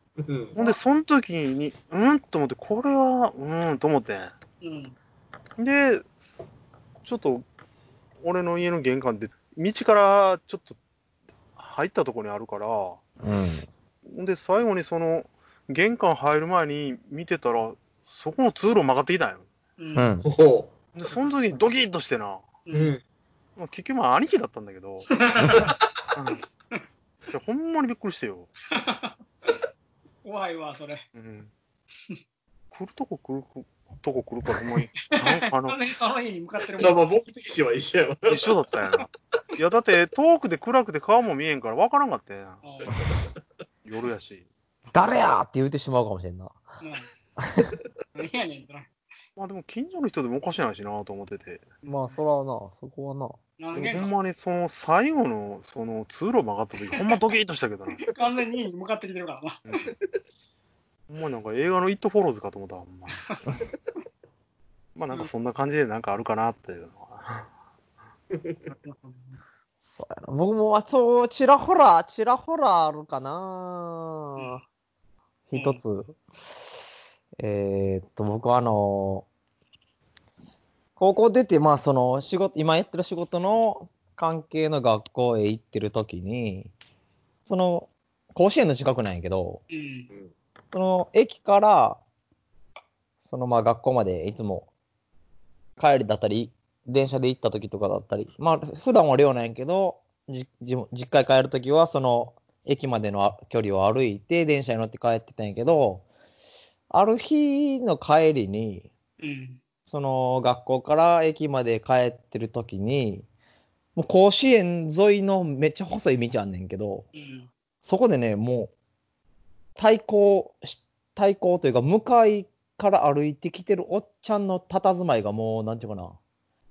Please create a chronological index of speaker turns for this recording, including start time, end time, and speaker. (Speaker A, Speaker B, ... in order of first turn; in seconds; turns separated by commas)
Speaker A: 0.2-0.6, Speaker B: 0.6-4.3, Speaker C: 4.6-5.0, Speaker B: 5.6-6.3, Speaker B: 7.0-7.5, Speaker B: 8.2-10.8, Speaker B: 11.6-13.0, Speaker D: 13.2-13.7, Speaker B: 14.1-19.5, Speaker C: 19.8-20.1, Speaker D: 20.0-20.3, Speaker A: 20.2-20.7, Speaker B: 20.9-22.5, Speaker C: 22.7-22.9, Speaker A: 22.7-23.0, Speaker B: 23.6-25.2, Speaker C: 25.1-25.7, Speaker B: 26.1-26.4, Speaker B: 27.3-28.5, Speaker C: 28.7-29.6, Speaker C: 30.2-31.1, Speaker B: 31.1-31.5, Speaker B: 32.7-35.8, Speaker C: 35.1-37.0, Speaker A: 36.8-38.6, Speaker B: 38.3-42.6, Speaker C: 42.6-43.0, Speaker B: 43.9-44.5, Speaker D: 44.9-46.6, Speaker C: 46.8-47.1, Speaker D: 47.4-47.7, Speaker C: 48.1-48.9, Speaker B: 49.4-51.6, Speaker C: 51.8-52.2, Speaker D: 51.9-53.4, Speaker C: 53.6-54.1, Speaker B: 53.7-58.1, Speaker C: 58.1-59.6, Speaker B: 59.7-59.9, Speaker B: 61.1-63.4, Speaker B: 65.0-67.5, Speaker C: 68.7-69.4, Speaker D: 69.8-74.6, Speaker C: 74.4-74.6, Speaker D: 75.5-76.3, Speaker C: 75.5-75.8, Speaker D: 77.4-79.3, Speaker D: 81.0-86.7, Speaker D: 87.5-89.6, Speaker C: 89.7-90.1, Speaker D: 90.7-92.0, Speaker D: 93.2-94.7, Speaker D: 95.8-106.1, Speaker D: 106.9-108.9, Speaker C: 109.2-109.6, Speaker D: 109.9-113.3, Speaker D: 114.0-117.1, Speaker C: 117.2-117.5, Speaker D: 117.8-118.7, Speaker D: 119.8-126.2